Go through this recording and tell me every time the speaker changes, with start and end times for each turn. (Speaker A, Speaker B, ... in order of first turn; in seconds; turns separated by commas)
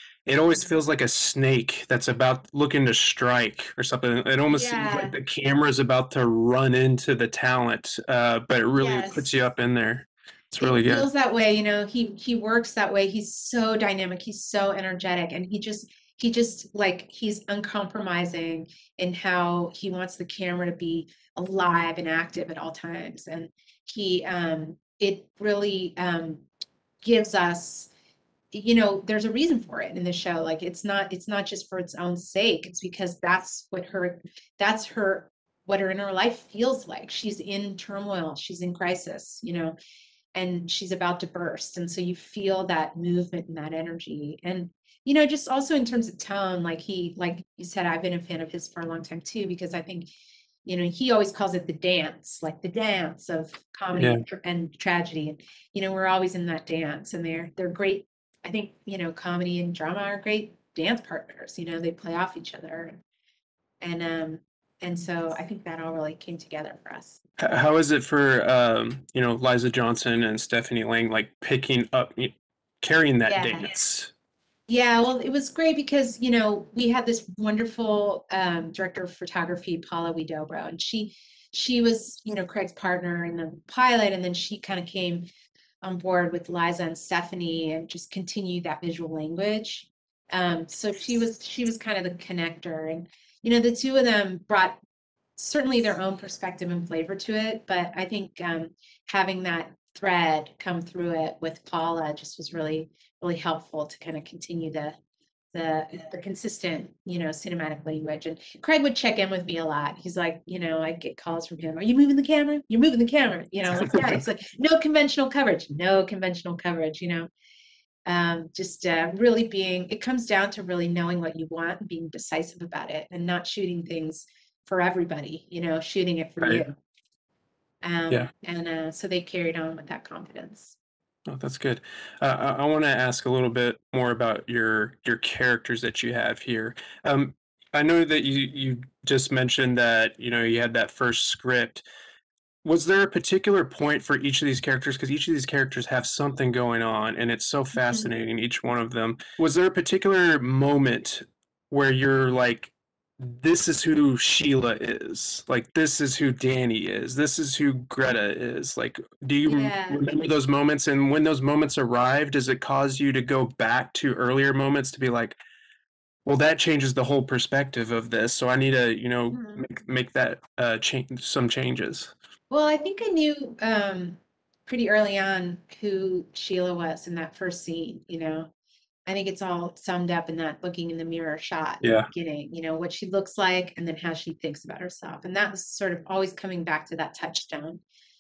Speaker A: 0.3-11.1, Speaker B: 4.5-5.2, Speaker B: 8.8-9.3, Speaker B: 10.6-26.4, Speaker B: 27.0-27.9, Speaker B: 28.5-39.8, Speaker B: 40.3-50.1, Speaker B: 50.6-63.0, Speaker A: 54.0-54.2, Speaker B: 63.8-67.2, Speaker A: 67.4-74.1, Speaker B: 73.2-73.7, Speaker B: 74.7-85.3, Speaker B: 85.8-94.8, Speaker B: 95.4-105.0, Speaker B: 105.5-117.3, Speaker A: 113.8-114.1, Speaker B: 118.1-126.7, Speaker B: 127.8-130.8, Speaker A: 131.3-141.8, Speaker A: 142.6-165.4, Speaker B: 147.8-148.1, Speaker B: 159.4-160.0, Speaker A: 166.3-172.1, Speaker B: 169.3-169.6, Speaker B: 172.5-178.5, Speaker B: 179.1-187.8, Speaker A: 181.8-182.1